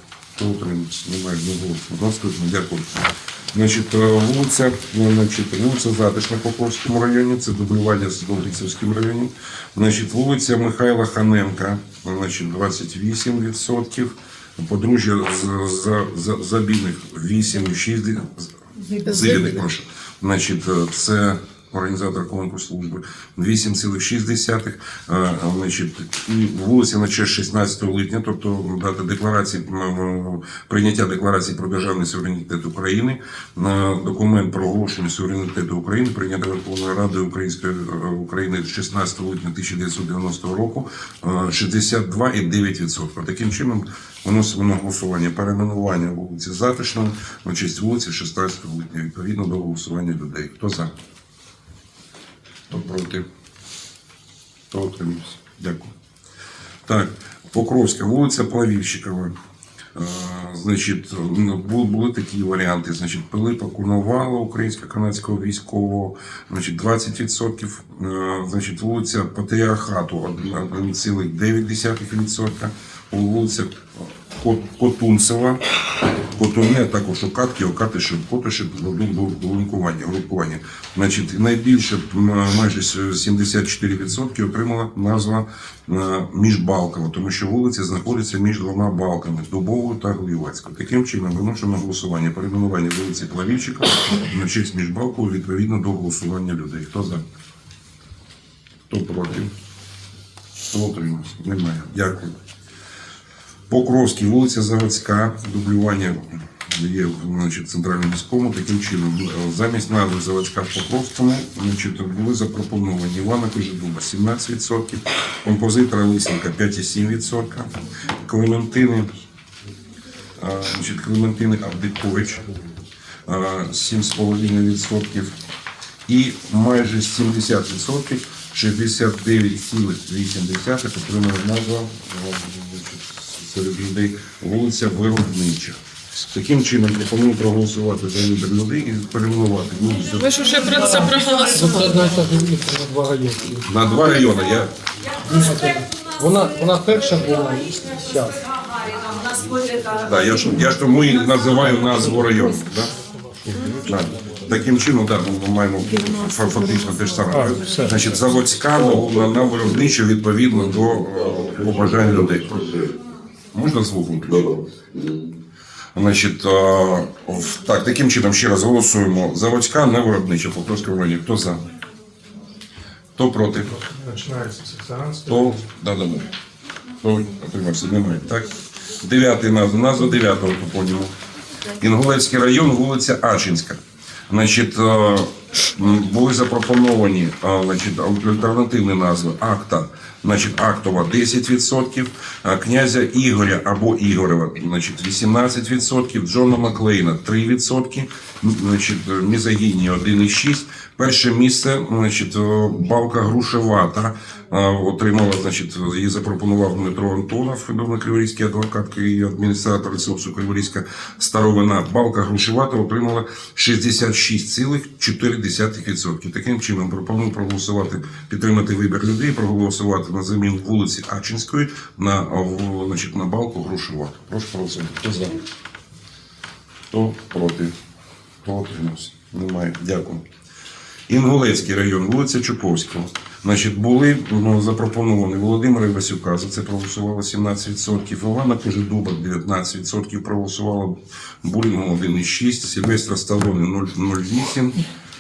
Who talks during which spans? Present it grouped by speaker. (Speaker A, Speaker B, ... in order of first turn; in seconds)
Speaker A: 0.3-50.9, 52.7-53.3, 54.7-55.9, 56.9-59.4, 60.0-75.6, 76.3-97.2, 98.9-99.5, 100.7-102.4, 103.7-119.1, 120.4-122.5, 123.3-125.4, 126.1-135.8, 136.3-140.4, 143.6-144.7, 150.0-152.9, 153.7-162.9, 163.5-164.6, 165.9-171.6, 173.2-174.0, 175.1-176.3, 177.0-181.1, 181.8-225.4, 226.9-227.8, 228.4-230.2, 231.1-244.8
Speaker B: 18.9-19.4, 140.1-142.1
Speaker C: 141.0-143.7, 145.3-148.4, 174.3-175.0